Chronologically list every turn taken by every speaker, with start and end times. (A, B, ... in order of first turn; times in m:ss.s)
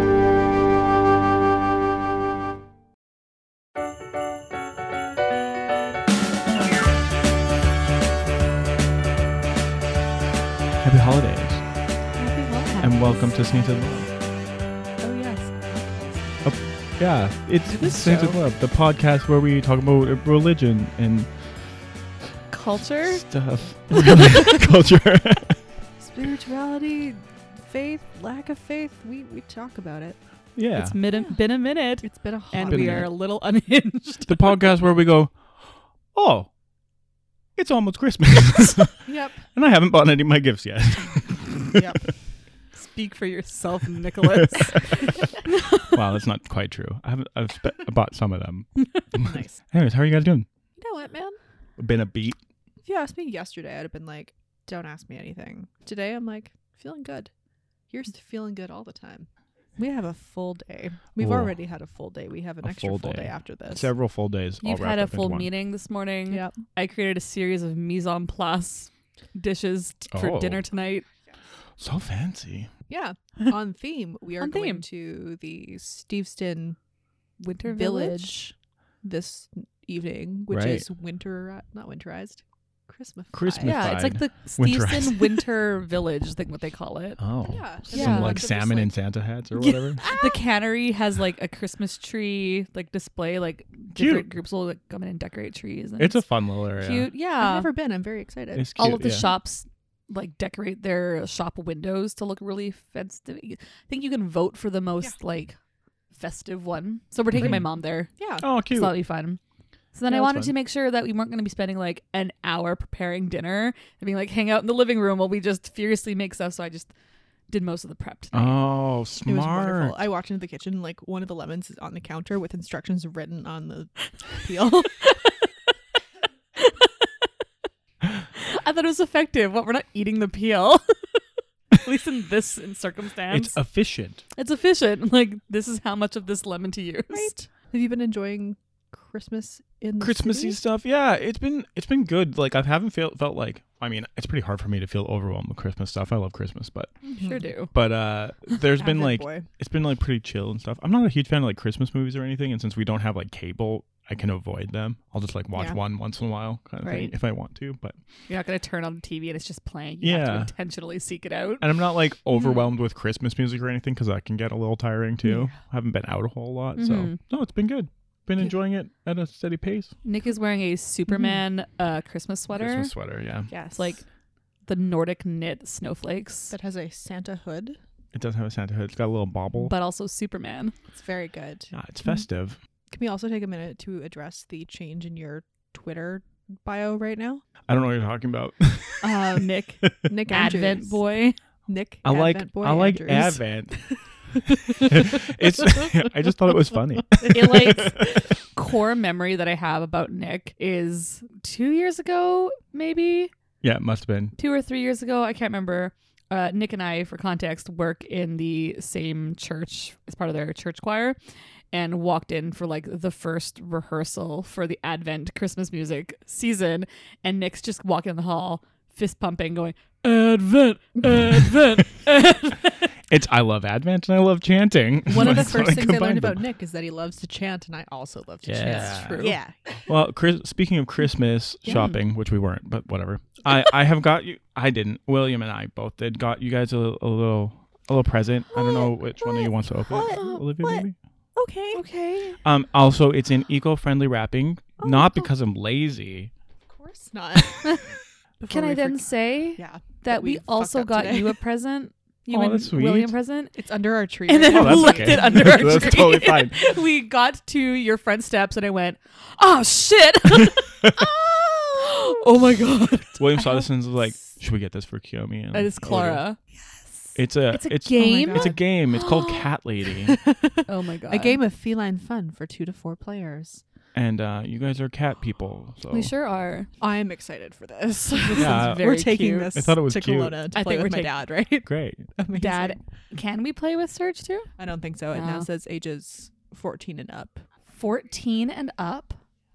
0:10.8-0:11.6 A
0:12.2-0:12.8 B
0:12.2-0:13.3 C
0:12.8-0:14.1 A
0:15.0-0:16.5 B
0:16.4-0:21.3 A
0:17.8-0:18.4 C
0:22.5-0:23.3 C
0:23.1-0:25.6 A
0:23.9-0:24.6 C
0:26.0-0:30.2 B
0:30.6-0:31.0 A
0:30.7-0:34.5 C
0:31.1-0:31.4 B
0:32.0-0:33.1 B
0:32.6-0:33.1 A
0:34.3-0:36.5 A
0:37.6-0:42.0 A
0:39.0-0:39.4 B
0:41.7-0:42.0 B
0:42.7-0:46.0 C
0:45.9-0:50.5 A
0:49.2-0:49.6 B
0:50.8-0:51.4 B
0:51.8-0:52.4 A
0:52.8-0:57.3 B
0:57.9-1:03.9 B
1:01.2-1:01.5 A
1:02.6-1:05.5 A
1:04.6-1:11.1 C
1:06.3-1:06.6 B
1:10.1-1:10.6 A
1:11.8-1:12.7 A
1:12.9-1:16.8 B
1:14.4-1:14.8 C
1:17.4-1:24.0 B
1:17.5-1:18.4 C
1:20.5-1:20.9 A
1:23.3-1:25.4 A
1:23.6-1:27.2 C
1:27.2-1:30.1 A
1:27.4-1:28.9 B
1:27.9-1:28.5 C
1:30.0-1:30.4 B
1:30.0-1:37.7 C
1:33.9-1:34.3 A
1:36.0-1:37.1 A
1:37.4-1:38.8 B
1:38.5-1:39.3 A
1:38.8-1:45.6 C
1:46.1-1:48.1 C
1:47.3-1:47.6 A
1:47.4-1:47.6 B
1:48.2-1:48.5 B
1:48.4-1:49.0 A
1:48.7-1:49.4 C
1:49.9-1:56.9 C
1:50.1-1:50.5 A
1:57.5-1:58.6 C
1:58.3-2:00.0 A
1:59.2-2:05.1 B
2:06.6-2:07.3 C
2:08.4-2:11.2 C
2:11.7-2:13.6 C
2:13.3-2:14.2 A
2:14.4-2:17.3 C
2:17.1-2:20.6 B
2:20.0-2:27.0 A
2:27.1-2:27.5 B
2:27.1-2:27.7 C
2:27.6-2:38.0 A
2:28.8-2:29.5 B
2:36.8-2:37.1 C
2:38.3-2:41.7 C
2:40.0-2:40.5 A
2:41.6-2:49.9 A
2:42.4-2:42.6 C
2:45.2-2:45.6 B
2:46.8-2:47.2 C
2:50.0-2:52.9 C
2:51.1-2:51.4 B
2:52.5-2:53.5 A
2:53.5-2:54.0 B
2:53.8-2:54.0 C
2:54.7-2:56.5 C
2:56.5-2:57.8 B
2:58.1-2:59.7 A
2:59.6-3:00.8 C
3:00.9-3:01.7 B
3:01.7-3:02.6 A
3:02.9-3:07.4 B
3:07.7-3:09.2 A
3:09.0-3:11.0 B
3:09.3-3:11.4 C
3:11.7-3:15.3 B
3:12.0-3:13.9 A
3:14.8-3:18.3 A
3:17.2-3:23.3 C
3:23.6-3:24.4 A
3:24.4-3:31.2 C
3:31.7-3:42.9 C
3:41.0-3:41.8 A
3:43.1-3:46.4 A
3:45.1-3:50.0 B
3:45.2-3:45.6 C
3:48.4-3:49.4 A
3:48.6-3:49.4 C
3:49.9-4:01.0 A
3:51.7-3:52.0 C
3:58.5-4:00.8 B
4:00.1-4:00.5 C
4:01.4-4:01.8 B
4:01.7-4:02.4 C
4:02.4-4:06.3 A
4:04.8-4:05.3 B
4:06.7-4:07.9 B
4:08.4-4:11.4 B
4:08.5-4:13.6 C
4:12.3-4:13.2 A
4:13.6-4:16.2 B
4:14.3-4:23.2 C
4:14.5-4:16.6 A
4:23.2-4:26.2 A
4:23.4-4:23.7 B
4:25.5-4:26.4 C
4:27.2-4:30.2 A
4:27.5-4:29.5 C
4:27.9-4:28.6 B
4:30.1-4:33.6 B
4:30.7-4:31.4 C
4:33.9-4:36.1 A
4:35.9-4:36.7 C
4:36.8-4:42.8 B
4:38.3-4:39.5 C
4:38.4-4:38.9 A
4:39.5-4:40.4 A
4:40.5-4:41.1 C
4:41.7-4:42.1 A
4:42.4-4:44.5 C
4:44.6-4:47.5 B
4:45.1-4:45.5 C
4:47.7-4:49.2 C